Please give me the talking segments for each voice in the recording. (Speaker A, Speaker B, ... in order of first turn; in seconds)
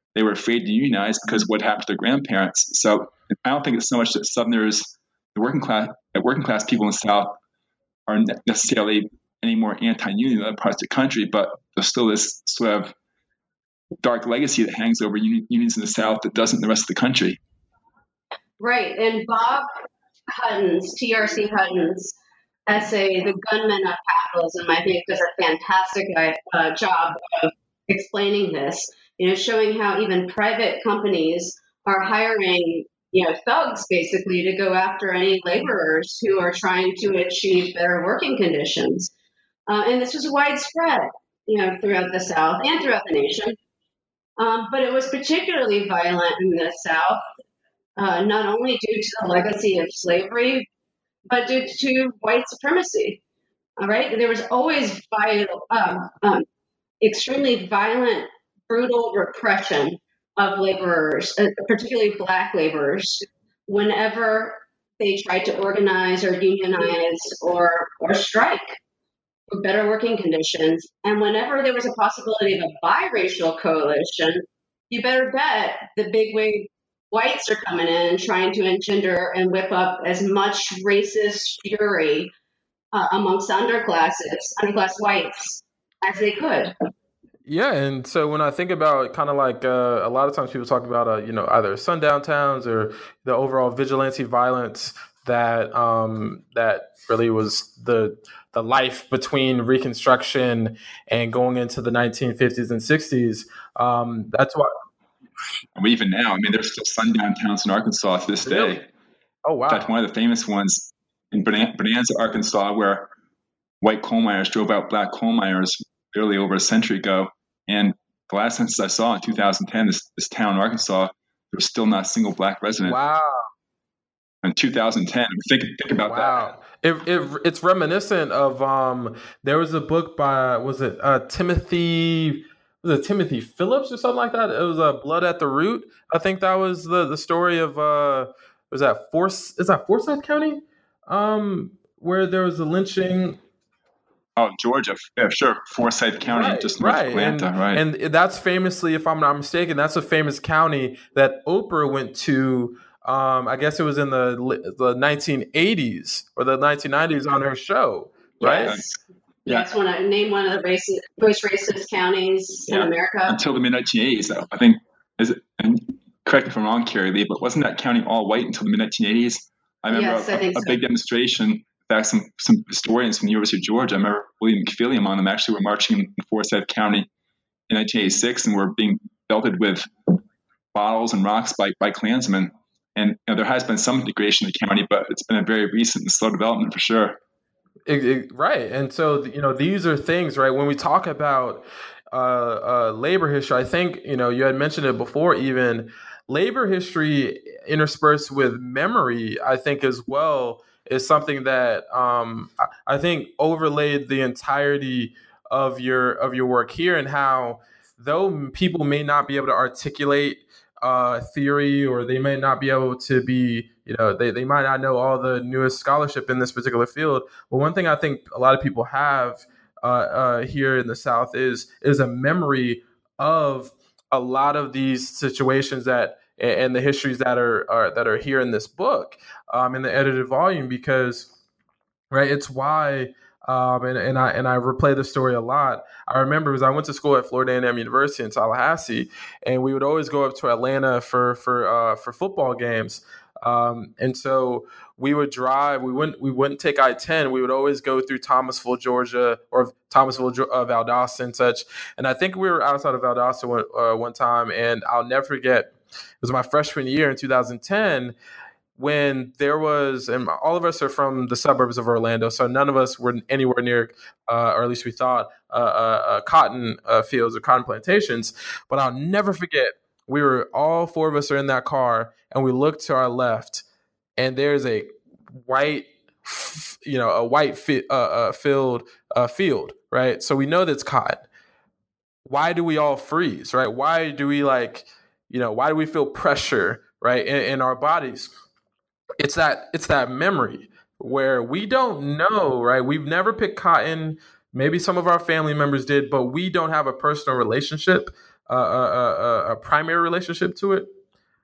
Speaker A: 0.1-7.4, 8.1-12.9, 14.0-17.4, 105.7-108.9, 109.7-113.1, 113.8-123.0, 124.4-126.4, 144.3-147.8, 162.7-177.1, 177.7-180.1, 180.7-187.2
Speaker B: 18.6-19.7, 20.3-22.1, 22.7-39.1, 39.7-43.6, 44.4-47.2, 48.0-50.7, 51.2-53.2, 53.8-56.4, 57.0-68.8, 69.5-82.3, 82.9-86.7, 158.4-163.4, 169.9-170.8
Speaker C: 87.5-104.7, 108.4-108.8, 109.4-109.9, 122.8-123.5, 126.0-143.4, 146.2-158.7, 187.8-231.3, 232.1-258.1, 258.8-273.6, 274.2-281.2, 282.2-288.3, 289.2-300.9